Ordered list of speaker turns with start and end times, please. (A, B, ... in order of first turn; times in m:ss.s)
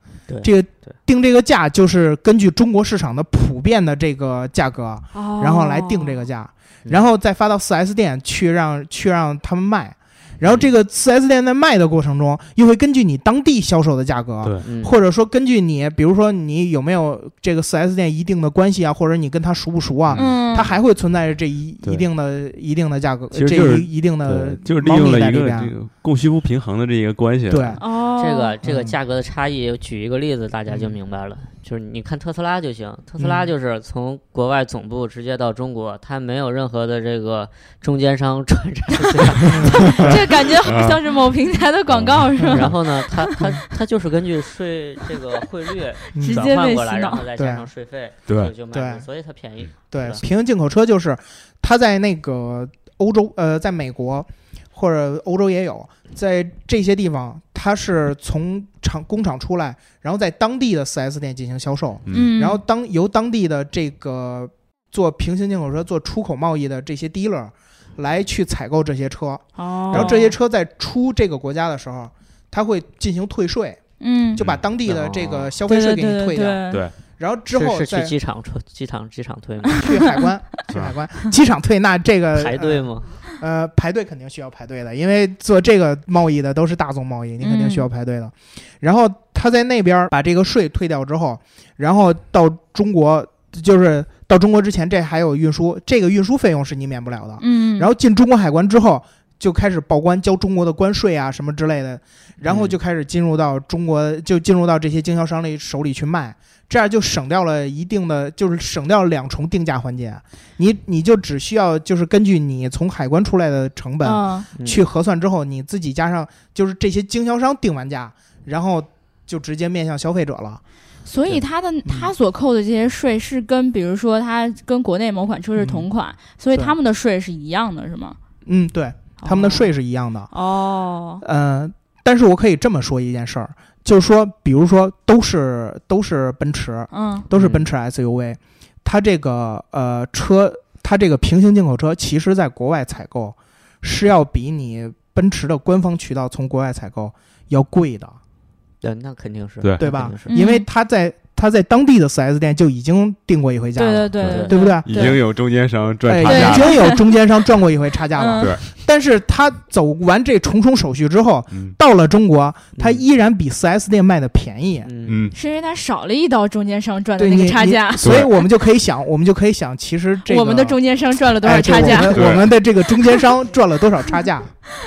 0:00.3-0:01.0 A
0:00.4-0:25.7 B
0:05.1-0:06.2 C
0:10.4-0:10.7 A
0:14.6-0:14.9 A
0:20.1-0:20.7 C
0:23.3-0:27.8 D
0:27.5-0:27.8 B
0:27.8-0:28.5 C
0:28.2-0:40.2 A
0:28.6-0:29.0 B
0:30.7-0:30.9 B
0:33.2-0:33.5 B
0:39.4-0:40.2 B
0:39.4-0:43.4 C
0:39.8-0:41.0 D
0:42.0-0:42.2 D
0:42.4-0:42.6 B
0:42.4-0:50.2 A
0:46.1-0:47.2 C
0:46.1-0:46.5 B
0:47.4-0:47.7 B
0:48.3-0:48.5 D
0:48.7-0:49.0 B
0:49.9-1:13.8 B
1:02.1-1:02.6 C
1:09.6-1:10.3 C
1:14.0-1:14.4 C
1:14.4-1:16.6 B
1:14.8-1:15.5 A
1:15.7-1:16.8 C
1:17.2-1:18.1 B
1:17.5-1:19.8 A
1:19.8-2:00.6 B
1:22.3-1:23.2 A
1:27.4-1:27.9 C
1:37.4-1:37.9 C
1:42.4-1:42.7 A
1:54.0-1:54.5 C
1:54.6-1:54.8 A
2:01.0-2:08.2 C
2:01.3-2:02.1 B
2:05.6-2:05.9 B
2:08.4-2:10.3 B
2:09.2-2:09.7 C
2:10.3-2:11.2 C
2:11.2-2:28.2 B
2:16.9-2:17.3 C
2:17.3-2:17.7 A
2:28.8-2:30.3 A
2:29.8-2:35.1 B
2:30.3-2:30.6 C
2:33.8-2:35.2 C
2:34.2-2:36.8 D
2:34.2-2:35.1 A
2:36.0-2:44.9 B
2:36.2-2:37.0 C
2:38.1-2:38.5 C
2:42.8-2:43.0 A
2:44.8-2:45.3 A
2:45.0-2:45.3 D
2:45.3-2:48.4 C
2:47.2-2:50.8 B
2:48.0-2:48.3 D
2:50.3-2:52.2 C
2:51.4-2:54.6 B
2:52.0-2:52.5 D